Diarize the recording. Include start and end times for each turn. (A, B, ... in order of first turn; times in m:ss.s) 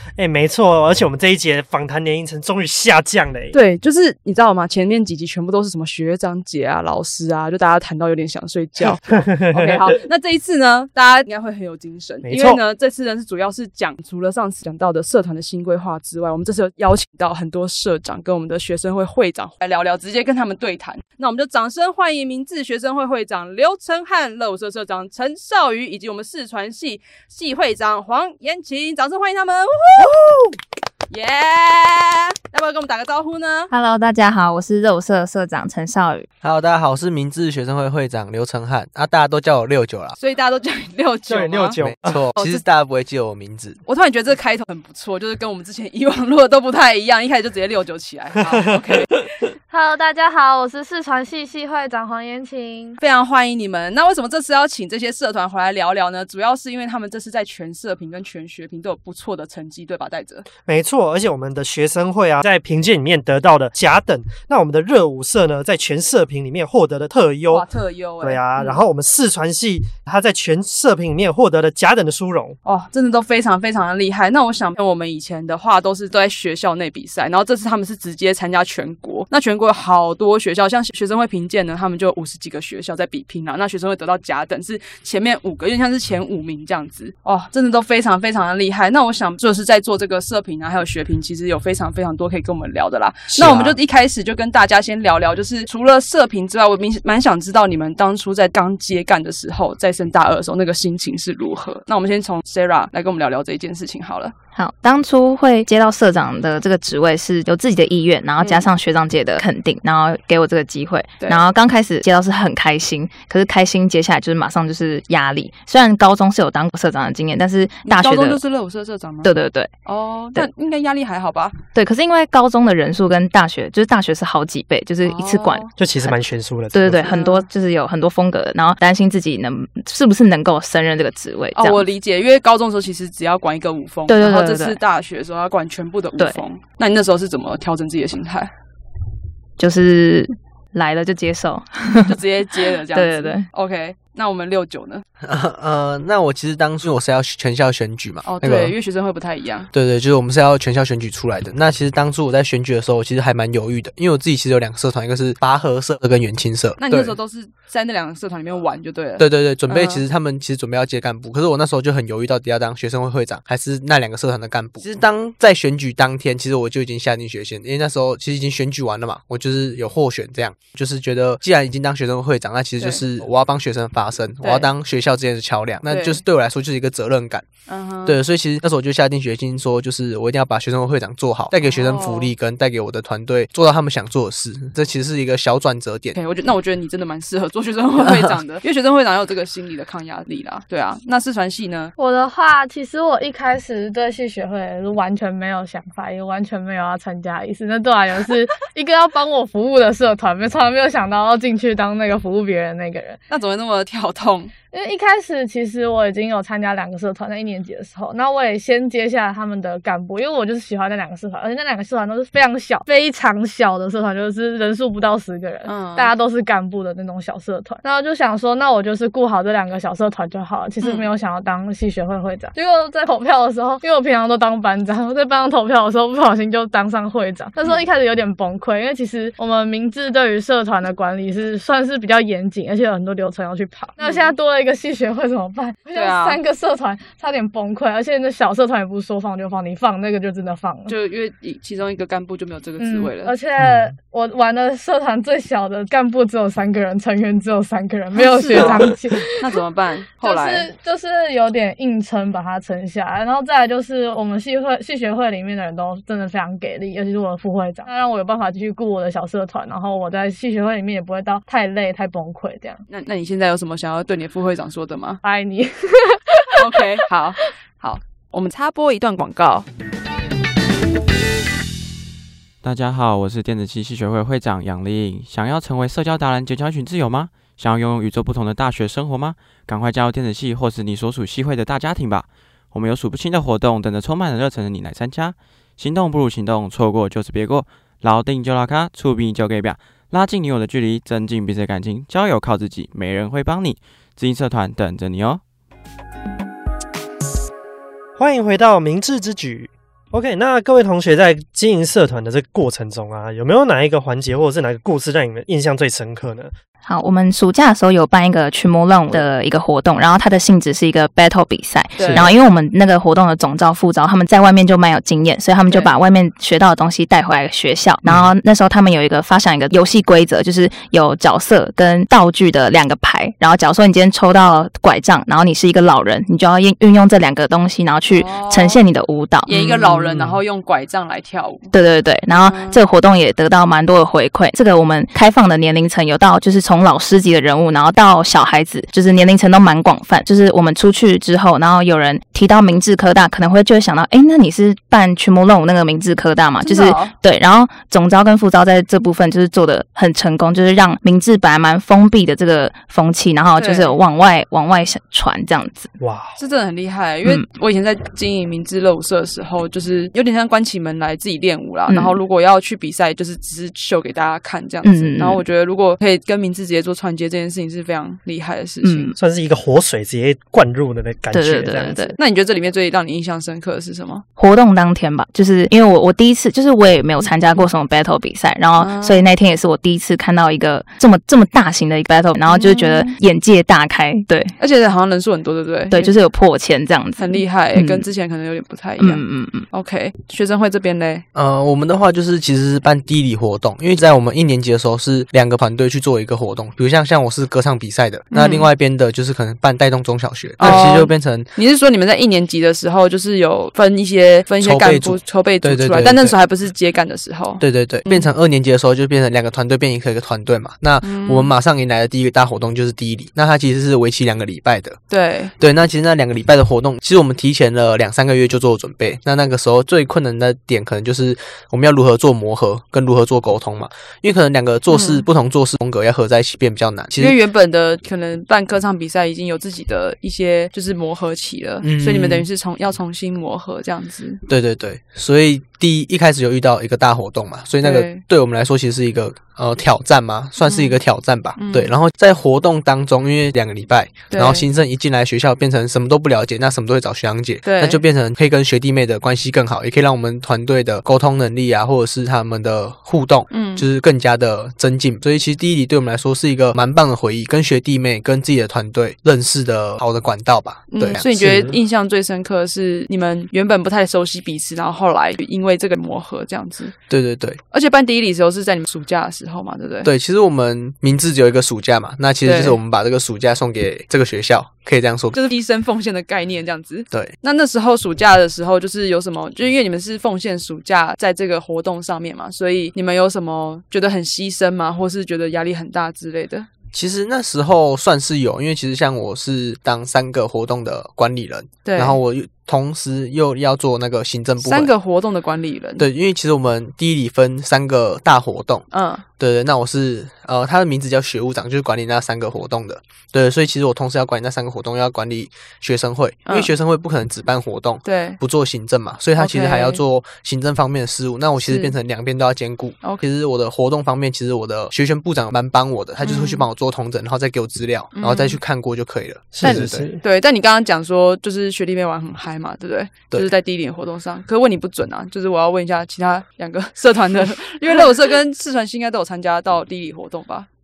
0:00.2-0:03.6 A
0:03.5-0:30.2 B
0:08.8-0:10.0 A
0:12.2-0:12.6 A
0:31.1-0:33.7 B
0:33.7-0:36.3 C
0:36.4-0:40.2 D
0:40.2-0:41.8 B
0:41.3-0:42.2 A
0:41.8-0:43.8 D
0:42.4-0:42.6 B
0:43.8-0:49.2 B
0:49.7-0:53.0 E
0:53.0-1:00.4 B
1:00.6-1:07.6 A
1:07.5-1:08.8 B
1:08.2-1:12.5 A
1:12.6-1:44.3 B
1:33.3-1:33.8 D
1:44.5-1:58.4 C
1:48.4-1:48.7 B
1:57.8-1:59.3 B
1:59.2-1:59.7 C
1:59.8-2:01.6 B
2:01.7-2:06.2 C
2:05.0-2:05.7 B
2:05.8-2:07.1 A
2:06.7-2:11.8 C
2:07.1-2:07.5 B
2:11.5-2:18.5 B
2:14.1-2:14.8 C
2:19.6-2:23.4 C
2:22.0-2:25.0 B
2:25.2-2:28.7 D
2:28.2-2:29.7 B
2:29.7-2:37.2 D
2:36.8-2:40.0 B
2:39.2-2:57.4 D
2:54.4-2:54.7 B
2:55.9-2:56.2 B
2:57.7-2:58.2 B
2:58.0-3:06.2 D
3:01.6-3:02.3 B
3:06.2-3:11.9 B
3:08.0-3:08.4 D
3:12.0-3:23.2 E
3:23.3-3:24.5 B
3:24.7-4:00.9 E
3:35.6-3:36.1 B
3:40.8-3:41.1 B
3:54.0-3:54.3 B
3:55.9-3:56.4 B
4:00.9-4:03.3 B
4:02.8-4:09.4 E
4:03.6-4:03.9 A
4:08.2-4:10.7 B
4:10.2-4:22.8 E
4:22.9-4:25.2 B
4:25.2-4:26.8 E
4:26.6-4:29.6 B
4:32.6-4:55.4 F
4:58.2-5:06.5 A
5:06.8-5:29.6 C
5:12.0-5:12.3 B
5:12.0-5:12.3 A
5:28.1-5:28.8 B
5:29.5-5:31.7 B
5:30.0-5:30.4 A
5:31.7-5:55.9 C
5:32.3-5:32.8 B
5:46.6-5:47.1 B
5:53.6-5:54.0 B
5:56.0-5:56.3 A
5:56.4-6:09.1 B
6:01.9-6:02.2 C
6:04.8-6:05.4 C
6:08.8-6:09.1 C
6:09.1-6:12.2 A
6:11.3-6:12.2 C
6:12.2-6:14.2 B
6:14.4-6:24.5 C
6:17.2-6:17.7 B
6:18.8-6:19.3 B
6:22.5-6:23.2 B
6:24.6-6:26.1 B
6:25.9-6:28.1 C
6:27.2-6:31.2 B
6:29.0-6:29.7 C
6:31.3-6:41.5 D
6:38.3-6:38.7 B
6:40.6-6:48.3 B
6:44.6-6:46.4 D
6:47.6-6:55.0 D
6:51.0-6:51.5 B
6:55.1-6:55.5 B
6:55.6-7:07.4 D
7:04.9-7:05.2 B
7:07.2-7:14.4 B
7:11.8-7:12.5 D
7:14.5-7:41.8 D
7:17.8-7:18.2 B
7:20.6-7:21.0 B
7:21.6-7:21.9 B
7:24.3-7:24.6 B
7:27.6-7:28.0 B
7:33.5-7:33.8 B
7:40.9-7:46.9 B
7:47.1-7:47.6 D
7:47.7-7:50.1 B
7:50.0-7:55.4 D
7:52.4-7:52.8 B
7:55.3-8:06.7 B
8:06.9-8:14.9 D
8:11.8-8:12.2 B
8:14.6-8:16.1 B
8:16.0-8:18.8 D
8:18.9-8:19.2 B
8:19.4-8:40.0 D
8:28.0-8:28.4 B
8:29.4-8:30.0 B
8:31.6-8:31.9 B
8:36.2-8:36.6 B
8:38.1-8:38.6 B
8:39.5-8:40.2 A
8:39.6-8:50.7 B